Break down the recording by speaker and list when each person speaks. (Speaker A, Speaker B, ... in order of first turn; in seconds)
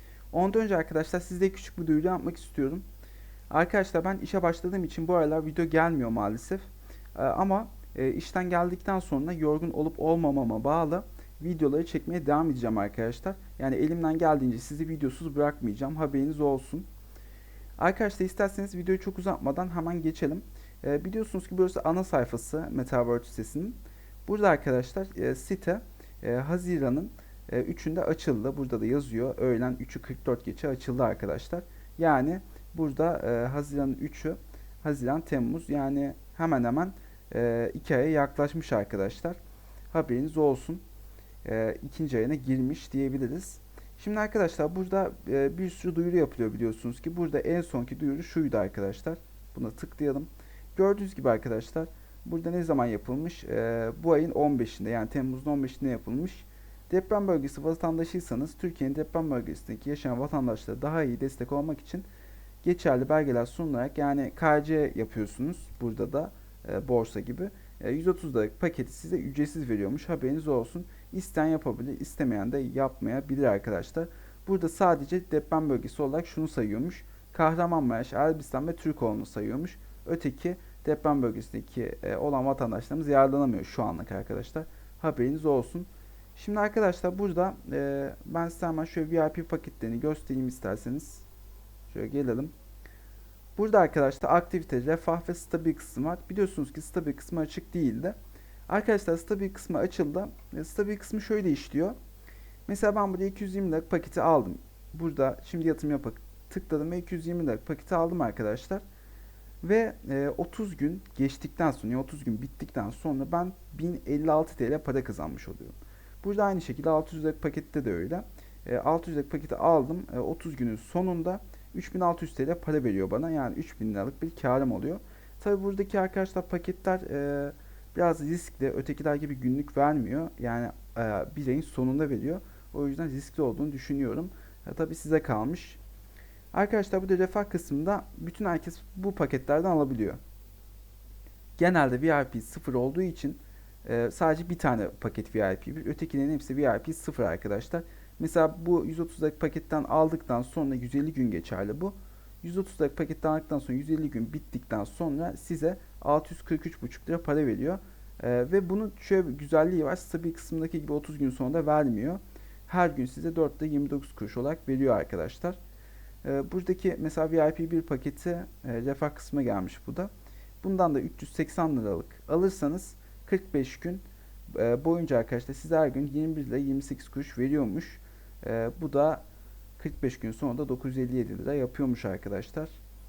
Speaker A: 0.3-2.8, 3.5-16.9, 17.8-39.4, 39.9-40.8, 41.4-62.1, 62.6-91.2, 91.9-92.5, 93.5-98.2, 98.7-101.9, 102.7-108.8, 109.6-135.8, 136.5-140.2, 141.6-165.6, 166.2-170.1, 170.6-179.2, 179.8-182.8